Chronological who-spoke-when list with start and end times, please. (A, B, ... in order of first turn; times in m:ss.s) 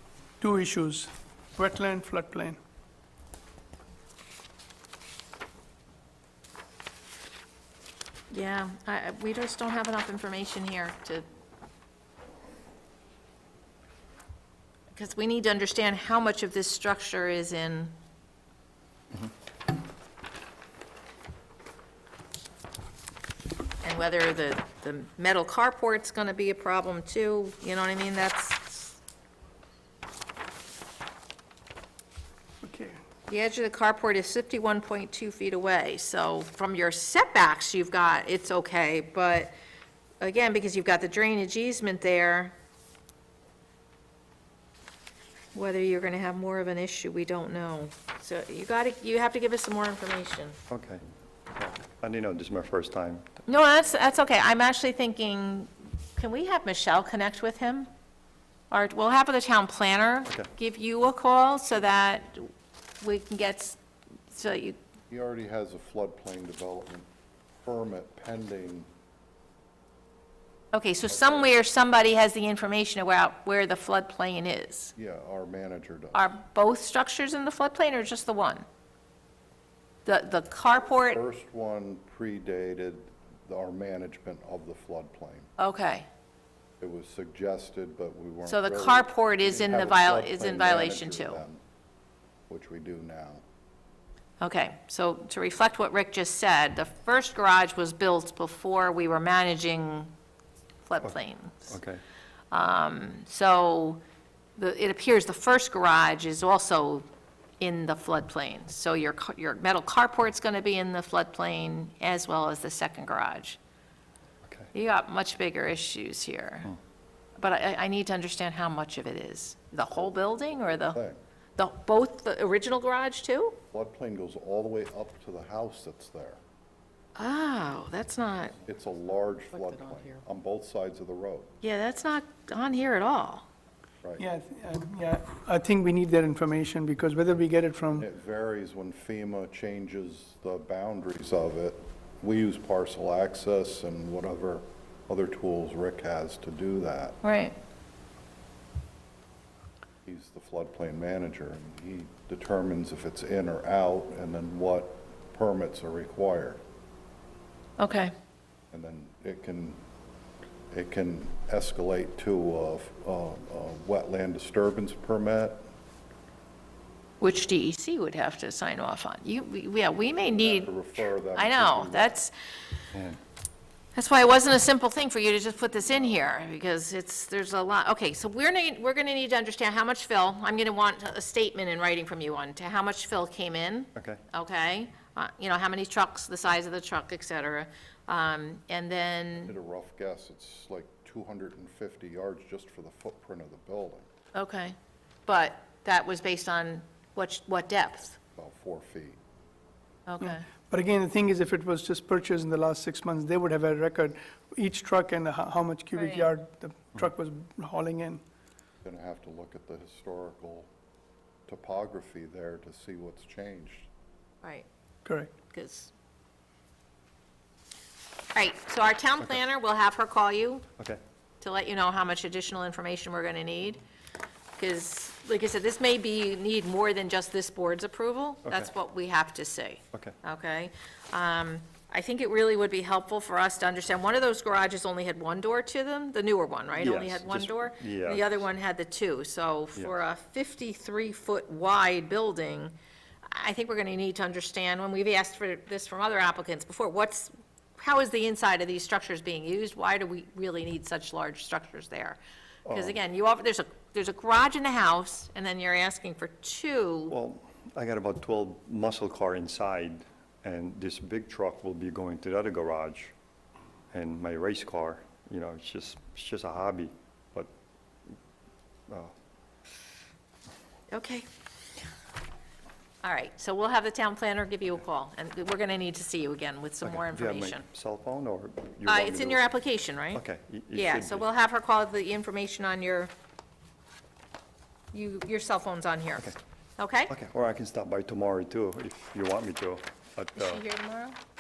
0:00.4-0:02.6 A
0:08.3-0:11.2 B
0:14.9-0:18.0 B
0:23.8-0:29.0 B
0:32.6-0:33.0 A
0:33.3-0:39.5 B
0:40.2-0:42.6 B
0:45.5-0:50.6 B
0:50.7-0:53.3 C
0:53.5-0:57.9 B
0:58.7-1:02.5 B
1:03.0-1:03.8 B
1:04.3-1:04.8 B
1:05.1-1:08.9 D
1:10.7-1:14.9 B
1:11.1-1:11.5 D
1:15.0-1:16.3 D
1:16.1-1:18.6 B
1:20.0-1:21.2 B
1:21.0-1:25.5 D
1:25.6-1:26.1 B
1:26.8-1:31.6 D
1:28.5-1:31.4 B
1:32.5-1:33.4 D
1:34.4-1:40.1 B
1:40.9-1:41.8 B
1:41.0-1:42.0 C
1:42.5-1:44.0 B
1:44.6-1:47.1 B
1:47.6-1:53.6 B
1:54.7-1:56.7 B
1:57.4-2:01.0 B
2:00.0-2:01.2 D
2:01.6-2:03.6 B
2:03.7-2:06.4 D
2:07.2-2:08.6 B
2:08.6-2:11.5 D
2:09.5-2:10.2 B
2:11.6-2:13.5 B
2:14.2-2:18.1 A
2:18.0-2:27.2 D
2:27.2-2:27.6 B
2:30.0-2:36.6 D
2:37.8-2:38.1 B
2:38.7-2:39.8 D
2:40.7-2:45.7 D
2:47.2-2:52.3 B
2:50.2-2:52.2 D
2:52.9-2:53.2 C
2:54.0-3:09.6 B
3:04.0-3:04.2 C
3:09.4-3:14.1 D
3:14.3-3:14.8 B
3:15.3-3:18.2 B
3:18.4-3:19.2 D
3:20.1-3:20.4 B
3:20.2-3:28.2 A
3:26.0-3:26.3 B
3:28.8-3:30.7 D
3:31.5-3:33.9 D
3:35.0-3:35.3 A
3:35.5-3:35.9 B
3:38.3-3:40.8 B
3:41.4-3:43.8 B
3:44.6-4:17.1 B
3:48.4-3:48.7 C
3:56.8-3:58.5 C
4:12.7-4:13.0 C
4:17.1-4:23.1 C
4:23.9-4:27.5 C
4:28.9-4:29.1 C
4:30.9-4:31.3 B
4:33.0-4:37.6 B
4:36.8-4:39.5 C
4:38.9-4:40.2 B
4:40.1-4:41.3 C
4:40.7-4:43.1 B
4:44.9-4:47.1 B
4:47.1-4:50.6 C
4:50.4-4:51.2 B